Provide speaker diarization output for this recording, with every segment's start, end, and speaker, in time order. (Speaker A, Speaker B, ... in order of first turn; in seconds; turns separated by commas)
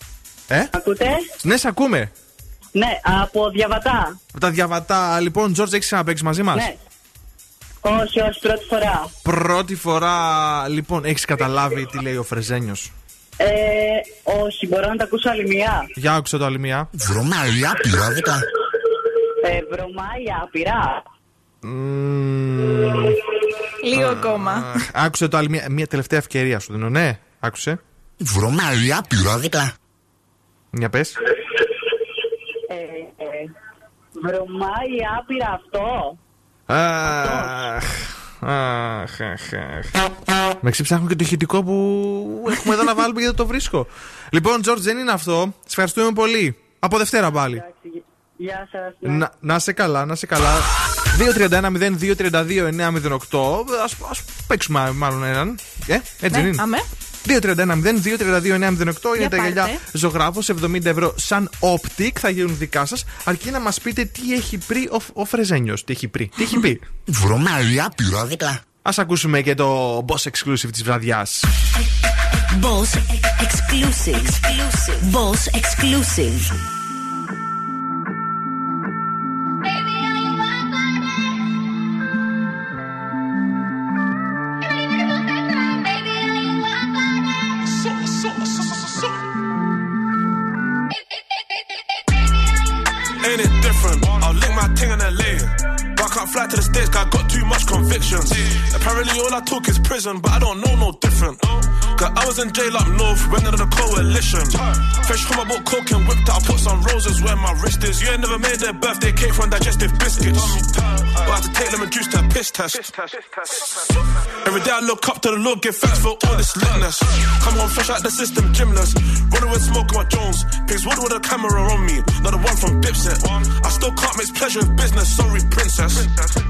Speaker A: 0.7-1.2, Speaker B: 1.4-2.1, Speaker A: 2.8-4.2, Speaker B: 4.3-6.7, Speaker A: 7.8-9.1, Speaker B: 9.2-12.9, Speaker A: 13.4-15.8, Speaker B: 16.0-16.9, Speaker C: 17.0-18.4, Speaker A: 19.4-21.0, Speaker B: 21.6-23.1, Speaker D: 23.8-24.7, Speaker B: 23.9-27.8, Speaker C: 28.2-29.7, Speaker B: 30.7-31.1, Speaker A: 32.7-33.5, Speaker A: 34.2-36.2, Speaker B: 36.7-39.9, Speaker B: 40.6-47.6, Speaker A: 47.4-49.2, Speaker B: 49.0-56.6, Speaker D: 56.3-56.8, Speaker B: 57.2-66.9, Speaker D: 59.2-59.8, Speaker C: 67.1-68.6, Speaker B: 68.8-71.5, Speaker E: 72.6-76.5, Speaker F: 88.0-89.0, Speaker F: 93.2-113.0, Speaker F: 113.5-126.1